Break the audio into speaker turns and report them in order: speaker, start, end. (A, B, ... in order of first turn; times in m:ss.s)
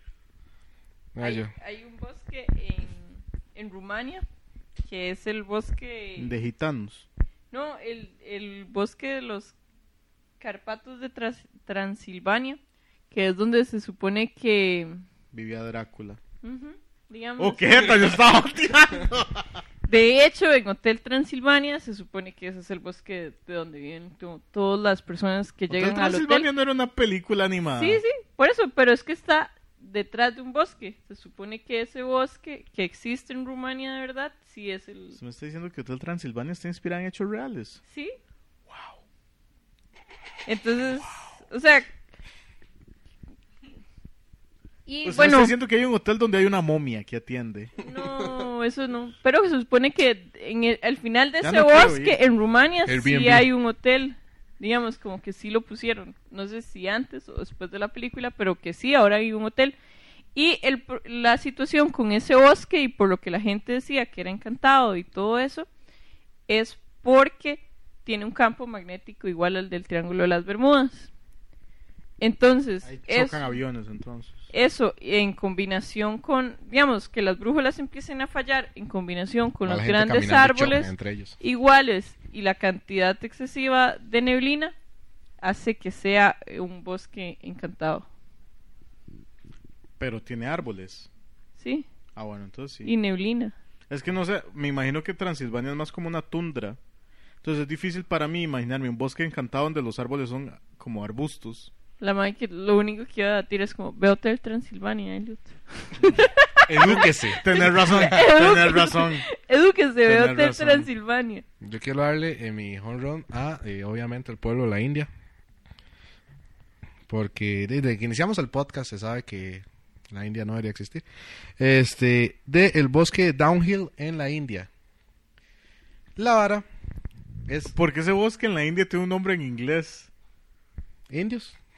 0:01.1-0:01.5 A
0:01.2-0:04.2 B
0:04.9-0:06.3 B
0:06.2-0:07.1 C
0:07.5-0:09.6 B
0:10.4-0:12.6 B
0:13.1-0:15.0 B
0:15.3-0:16.2 C
0:16.4-0:18.2 B
0:17.4-0:19.5 C
0:19.9-0:26.5 B
0:25.7-0:28.0 C
0:27.8-0:35.2 B
0:35.2-0:37.8 C
0:37.9-0:38.2 B
0:38.7-0:39.0 C
0:40.4-0:41.9 B
0:44.9-0:45.5 B
0:45.0-0:47.7 C
0:47.8-0:59.7 B
0:51.4-0:52.2 C
0:52.9-0:53.5 A
1:00.3-1:05.7 B
1:06.5-1:11.1 B
1:12.2-1:13.5 B
1:12.8-1:14.5 C
1:14.5-1:24.7 B
1:19.6-1:21.4 A
1:25.4-1:28.1 B
1:30.0-1:31.1 C
1:31.6-1:31.9 B
1:32.2-1:32.9 C
1:32.8-1:33.5 B
1:33.9-1:36.8 C
1:37.4-1:41.7 C
1:42.0-1:51.4 B
1:46.7-1:47.9 A
1:46.8-1:49.2 C
1:50.0-1:50.9 C
1:51.6-1:55.1 A
1:57.1-2:01.0 A
2:01.6-2:04.7 A
2:06.2-2:06.6 A
2:07.5-2:07.7 A
2:07.7-2:10.1 C
2:11.1-2:11.6 A